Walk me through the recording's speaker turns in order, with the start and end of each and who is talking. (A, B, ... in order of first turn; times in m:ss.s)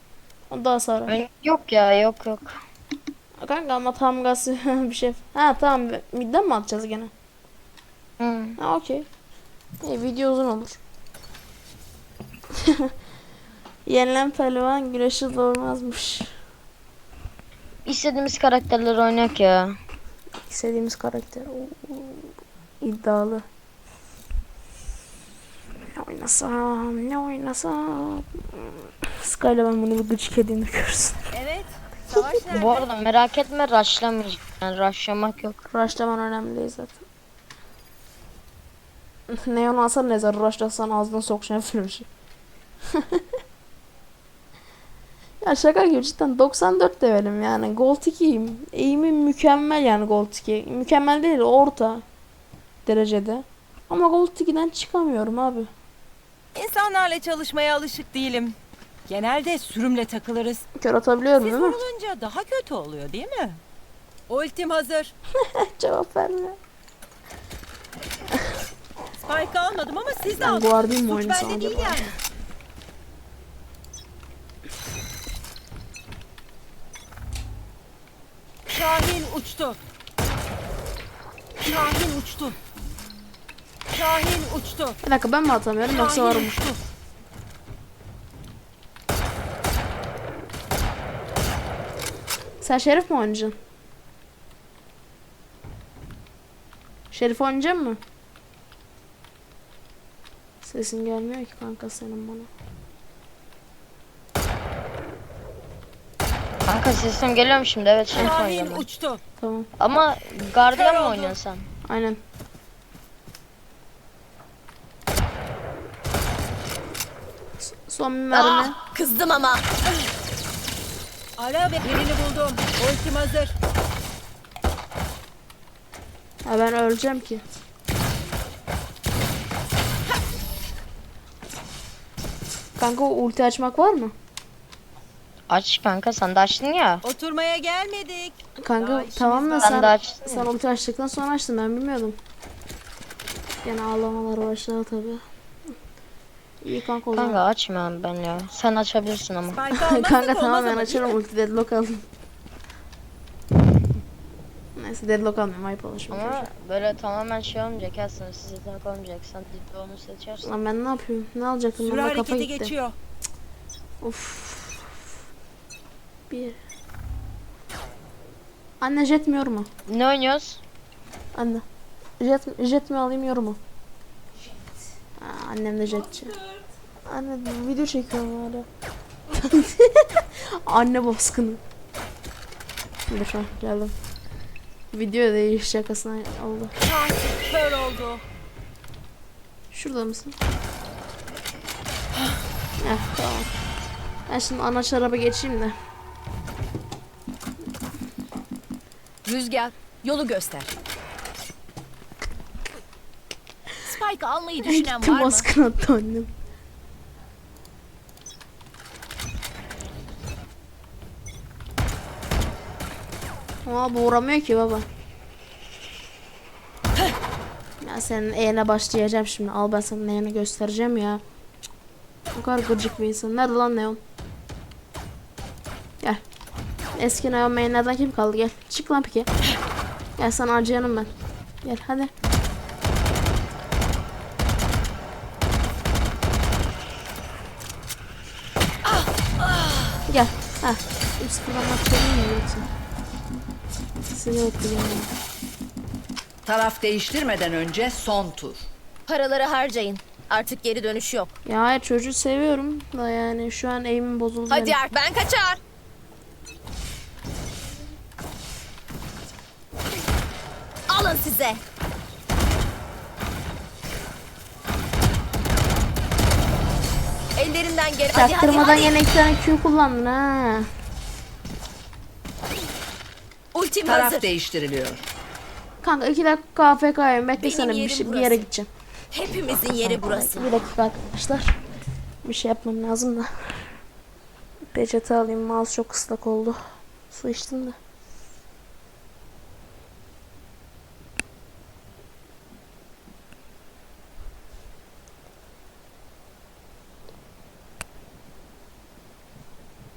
0:00.5-0:01.2 A
0:01.1-0:02.6 B
0:03.4-0:07.1 A
0:08.2-0:08.6 B
0:08.6-0:09.1 A
0:09.8-0:10.8 A
0:12.6-0:12.9 A
0:13.9-0:16.3 A
0:17.8-0:19.8 B
0:20.5-0:23.4 A
0:26.0-0:31.3 A
0:31.3-0:32.8 C
0:32.5-0:35.6 B
0:35.7-0:37.0 A
0:39.3-0:42.1 A
0:42.9-0:43.2 A
0:45.4-0:52.0 A
0:52.9-0:55.7 A
0:56.6-0:58.6 D
0:59.1-1:00.6 D
1:00.8-1:01.8 A
1:01.4-1:03.6 D
1:04.3-1:05.1 D
1:05.4-1:06.6 A
1:09.2-1:12.2 D
1:10.3-1:12.1 A
1:18.7-1:19.8 D
1:21.6-1:22.6 D
1:23.9-1:25.0 D
1:25.0-1:26.6 A
1:25.9-1:26.8 D
1:32.6-1:33.6 A
1:37.1-1:38.0 A
1:40.6-1:42.5 A
1:46.6-1:48.9 B
1:48.1-1:49.2 D
1:49.4-1:49.7 A
1:49.8-1:51.7 B
1:50.8-1:51.2 C
1:51.0-1:51.2 D
1:51.9-1:52.2 A
1:57.6-1:58.8 A
1:58.3-1:59.6 C
2:01.4-2:03.5 D
2:06.5-2:07.4 A
2:12.8-2:14.1 A
2:15.5-2:17.0 B
2:17.0-2:19.7 D
2:18.6-2:22.2 A
2:19.6-2:20.5 B
2:23.6-2:25.2 A
2:26.6-2:27.4 A
2:27.1-2:29.6 B
2:29.5-2:30.7 D
2:29.7-2:32.0 A
2:30.0-2:31.1 C
2:34.8-2:36.5 A
2:36.1-2:40.5 B
2:40.4-2:42.7 A
2:41.8-2:43.0 D
2:44.0-2:44.9 A
2:46.3-2:46.6 A
2:48.8-2:49.7 A
2:49.9-2:50.6 B
2:51.4-2:51.6 A
2:52.2-2:53.6 A
2:55.2-2:56.4 A
2:57.1-2:58.7 A
2:59.3-3:01.6 A
3:03.1-3:03.9 A
3:04.9-3:06.7 A
3:06.8-3:08.2 D
3:09.7-3:10.4 A
3:12.8-3:13.5 A
3:14.3-3:15.8 A
3:19.2-3:20.7 C
3:23.8-3:25.5 C
3:24.6-3:26.3 A
3:33.6-3:34.9 A
3:37.8-3:41.2 A
3:42.4-3:44.0 A
3:47.0-3:49.3 A
3:50.2-3:51.1 A
3:51.6-3:52.1 A
3:58.9-4:00.0 D
4:00.1-4:02.7 A
4:04.1-4:05.1 A
4:06.5-4:08.6 E
4:09.1-4:11.3 C
4:11.5-4:14.8 A
4:14.5-4:15.6 C
4:20.9-4:21.6 C
4:27.4-4:29.0 C
4:28.1-4:30.7 A
4:33.5-4:34.3 C
4:33.8-4:35.0 E
4:35.8-4:38.7 A
4:37.4-4:38.5 C
4:39.1-4:40.5 C
4:39.5-4:41.6 A
4:42.2-4:43.6 A
4:44.7-4:46.6 A
4:47.1-4:47.8 A